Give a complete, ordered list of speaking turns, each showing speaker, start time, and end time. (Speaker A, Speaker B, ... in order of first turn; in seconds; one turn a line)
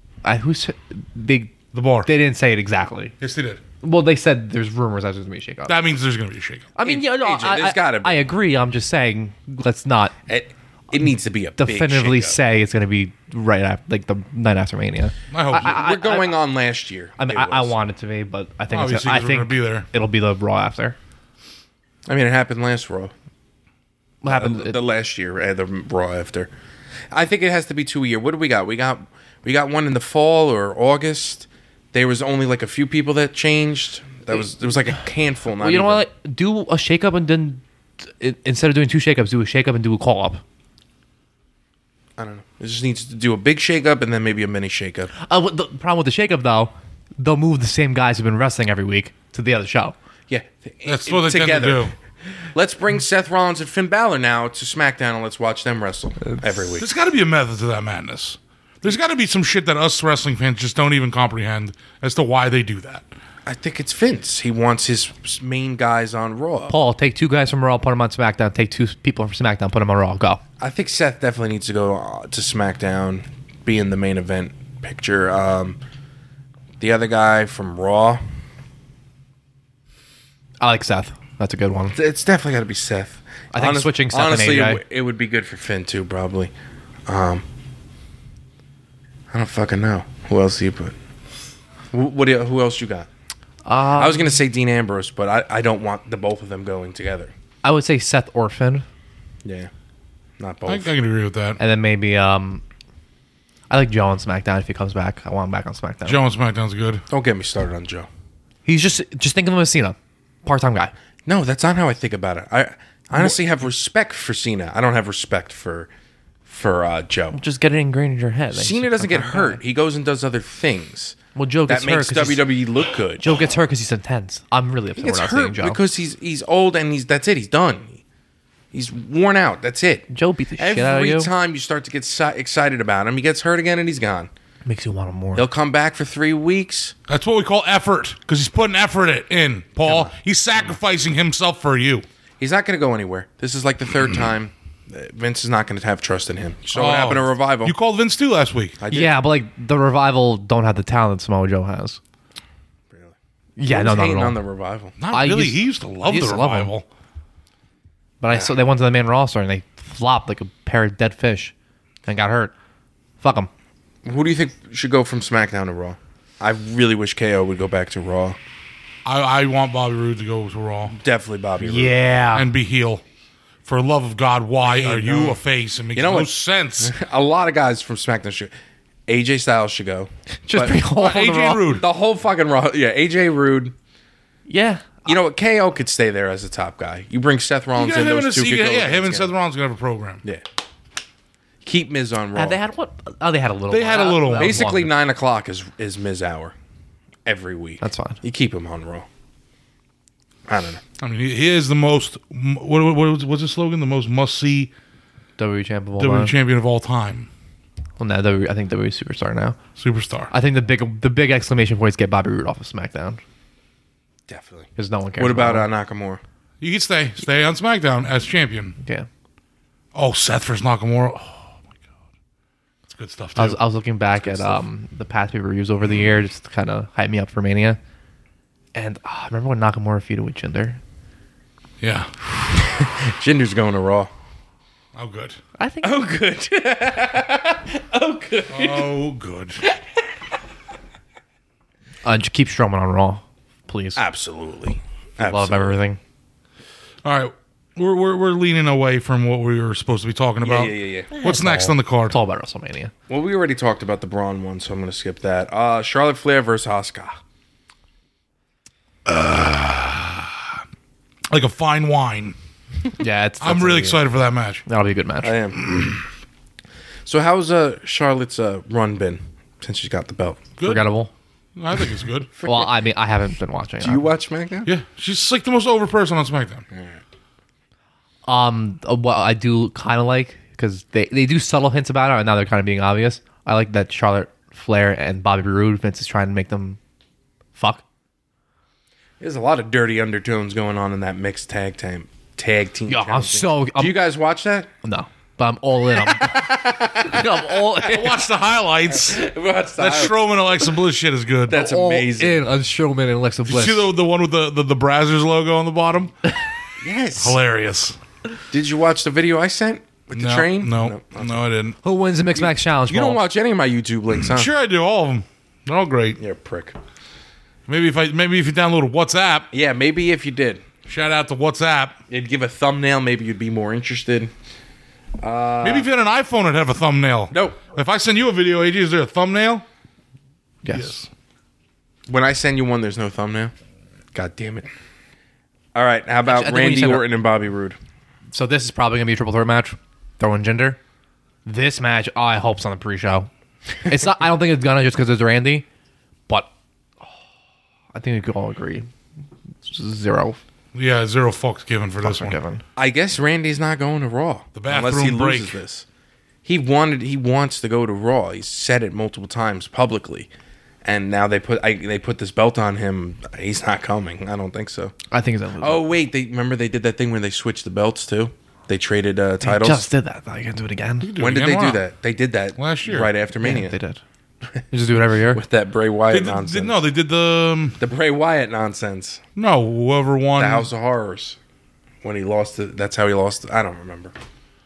Speaker A: 0.2-3.1
Speaker B: 1.7-2.1
Speaker B: 3.2-3.6
Speaker A: 3.8-5.7
Speaker B: 5.7-6.7
Speaker A: 6.8-10.1
Speaker C: 6.8-8.2
Speaker C: 10.3-12.4
Speaker A: 11.6-16.4
Speaker B: 15.3-15.8
Speaker C: 15.6-17.8
Speaker A: 17.2-20.9
Speaker B: 18.7-19.9
Speaker C: 22.1-23.1
Speaker A: 24.2-24.8
Speaker C: 24.2-26.5
Speaker C: 27.1-36.0
Speaker A: 35.5-40.4
Speaker C: 42.2-45.1
Speaker A: 45.2-49.9
Speaker C: 50.3-51.9
Speaker B: 50.9-51.9
Speaker C: 52.5-56.9
Speaker B: 56.8-63.1
Speaker C: 63.5-66.7
Speaker A: 66.7-70.4
Speaker C: 70.6-75.8
Speaker C: 76.8-78.2
Speaker A: 80.6-82.0
Speaker C: 81.9-86.5
Speaker A: 83.5-84.8
Speaker C: 87.1-87.4
Speaker C: 89.3-90.9
Speaker C: 91.9-93.1
Speaker A: 93.6-94.3
Speaker C: 93.9-97.3
Speaker A: 97.6-98.8
Speaker C: 99.4-99.7
Speaker C: 100.4-100.9
Speaker B: 100.7-101.6
Speaker A: 101.6-102.6
Speaker A: 103.7-106.2
Speaker B: 106.0-107.0
Speaker C: 107.1-108.1
Speaker A: 108.7-110.9
Speaker C: 111.2-115.9
Speaker C: 116.5-117.4
Speaker A: 117.3-119.6
Speaker C: 118.5-123.3
Speaker A: 121.3-122.5
Speaker A: 123.2-125.8
Speaker C: 125.0-128.0
Speaker C: 128.7-134.3
Speaker A: 130.1-131.3
Speaker A: 134.7-135.5
Speaker C: 135.3-136.9
Speaker B: 137.1-142.0
Speaker C: 139.8-140.1
Speaker C: 142.4-147.7
Speaker B: 146.7-148.8
Speaker C: 148.8-149.2
Speaker A: 148.9-152.0
Speaker A: 153.6-154.4
Speaker C: 153.7-154.9
Speaker B: 155.0-156.8
Speaker A: 155.1-156.7
Speaker A: 158.2-161.5
Speaker A: 162.1-162.5
Speaker A: 163.2-163.5
Speaker C: 164.0-168.4
Speaker B: 169.0-170.9
Speaker C: 170.9-171.9
Speaker A: 171.6-172.5
Speaker B: 172.3-173.0
Speaker B: 173.6-176.9
Speaker C: 174.6-175.4
Speaker C: 175.9-178.5
Speaker C: 179.1-180.8
Speaker A: 180.5-181.8
Speaker B: 180.9-181.8
Speaker C: 181.7-183.7
Speaker A: 184.5-185.1
Speaker C: 185.1-189.3
Speaker B: 187.8-190.2
Speaker C: 191.6-192.6
Speaker A: 192.3-194.9
Speaker B: 193.7-194.6
Speaker C: 194.3-196.5
Speaker C: 197.2-199.1
Speaker A: 197.8-198.2
Speaker C: 200.5-200.8
Speaker B: 201.0-204.7
Speaker A: 205.4-206.3
Speaker B: 206.0-207.3
Speaker A: 208.0-209.6
Speaker B: 209.8-210.3
Speaker A: 210.3-213.2
Speaker C: 214.3-216.2
Speaker A: 214.8-215.7
Speaker B: 216.6-218.8
Speaker B: 219.9-221.6
Speaker B: 222.9-223.6
Speaker A: 223.3-227.8
Speaker C: 224.2-224.6
Speaker A: 228.7-230.8
Speaker B: 231.8-232.1
Speaker C: 232.6-234.1
Speaker B: 234.9-235.4
Speaker A: 235.6-236.1
Speaker C: 235.8-238.9
Speaker B: 238.5-239.6
Speaker A: 242.0-244.0
Speaker C: 243.9-245.8
Speaker A: 245.2-246.0
Speaker B: 247.0-252.1
Speaker C: 250.4-251.1
Speaker A: 251.1-252.9
Speaker C: 253.1-257.2
Speaker B: 259.1-260.5
Speaker B: 261.3-262.3
Speaker A: 263.0-264.0
Speaker B: 263.4-264.6
Speaker A: 264.6-265.4
Speaker C: 265.2-265.9
Speaker C: 267.0-270.5
Speaker B: 270.6-270.8
Speaker A: 270.6-271.1
Speaker B: 271.6-272.3
Speaker C: 272.4-272.7
Speaker A: 272.4-274.1
Speaker C: 273.8-274.7
Speaker B: 274.6-276.6
Speaker C: 276.7-277.0
Speaker A: 278.2-286.8
Speaker A: 287.6-287.8
Speaker C: 289.2-294.7
Speaker A: 292.9-294.0
Speaker A: 294.8-298.2
Speaker C: 296.1-297.4
Speaker B: 297.8-301.6
Speaker C: 298.9-300.1
Speaker C: 301.5-302.4
Speaker A: 301.5-303.9
Speaker B: 303.4-306.1
Speaker C: 306.8-307.4
Speaker B: 307.2-308.0
Speaker C: 308.5-311.4
Speaker B: 310.1-311.8
Speaker A: 311.8-313.2
Speaker C: 312.3-314.5
Speaker B: 314.2-316.2
Speaker C: 316.2-316.8
Speaker B: 317.7-319.5
Speaker C: 319.5-320.6
Speaker B: 320.9-322.0
Speaker C: 322.1-324.3
Speaker C: 325.2-325.9
Speaker B: 325.6-329.6
Speaker C: 327.3-327.7
Speaker A: 330.6-331.0
Speaker B: 330.7-331.1
Speaker C: 332.1-333.5
Speaker C: 334.1-334.7
Speaker C: 335.7-337.8
Speaker A: 336.2-337.1
Speaker A: 338.3-340.8
Speaker A: 341.4-343.3
Speaker A: 343.8-345.6
Speaker A: 347.9-348.9
Speaker A: 349.6-350.4
Speaker B: 350.7-352.4
Speaker A: 352.0-352.6
Speaker C: 352.8-355.9
Speaker B: 354.5-355.6
Speaker C: 356.4-360.3
Speaker C: 360.8-364.9
Speaker A: 365.1-365.9
Speaker C: 365.6-369.9
Speaker A: 369.4-371.1
Speaker B: 371.0-371.8
Speaker C: 371.2-373.8
Speaker B: 372.6-373.1
Speaker A: 373.4-374.0
Speaker A: 374.7-375.4
Speaker C: 375.3-376.8
Speaker B: 376.1-377.8
Speaker C: 377.8-379.2
Speaker B: 379.4-380.6
Speaker C: 380.4-381.4
Speaker C: 382.0-384.1